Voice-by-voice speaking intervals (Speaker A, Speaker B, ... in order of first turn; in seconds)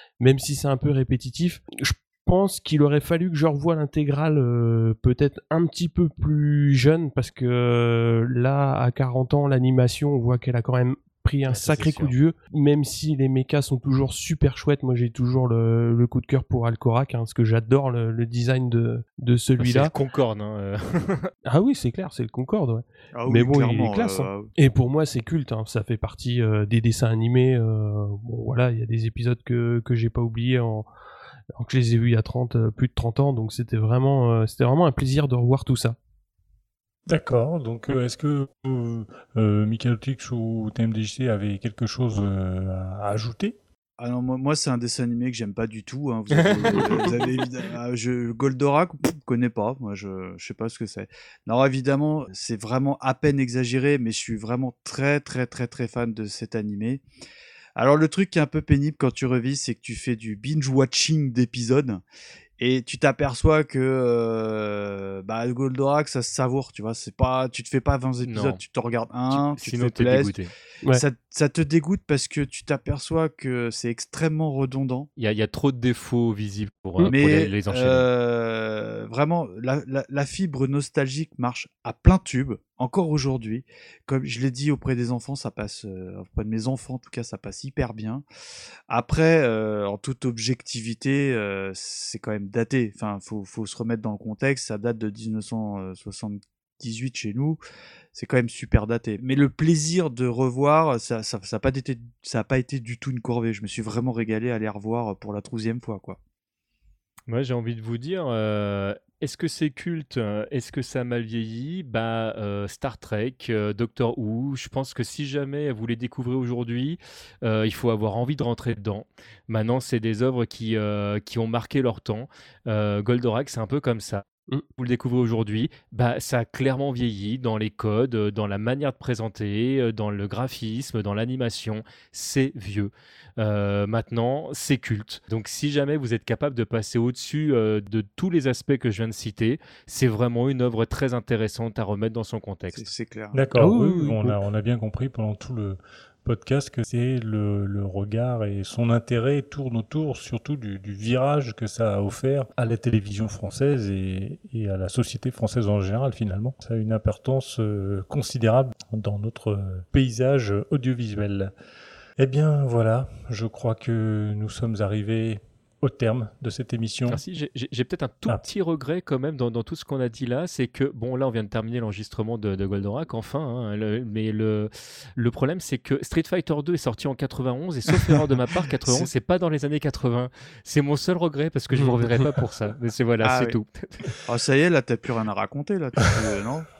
Speaker A: 0.2-19.9, 21.5-30.9, 31.6-36.0, 143.6-144.4
Speaker B: 11.5-12.2, 19.6-21.3, 46.4-47.1, 68.2-68.6, 69.3-70.5, 75.2-78.1, 107.3-124.2, 124.8-142.9, 167.1-184.1
Speaker C: 23.1-24.5, 44.0-57.0, 57.8-62.0, 62.6-70.4, 70.9-75.1, 77.0-88.2, 88.9-97.6, 98.1-106.2, 142.7-143.4, 183.2-183.6, 184.2-186.7
Speaker D: 37.1-43.6, 143.3-161.5, 162.2-167.2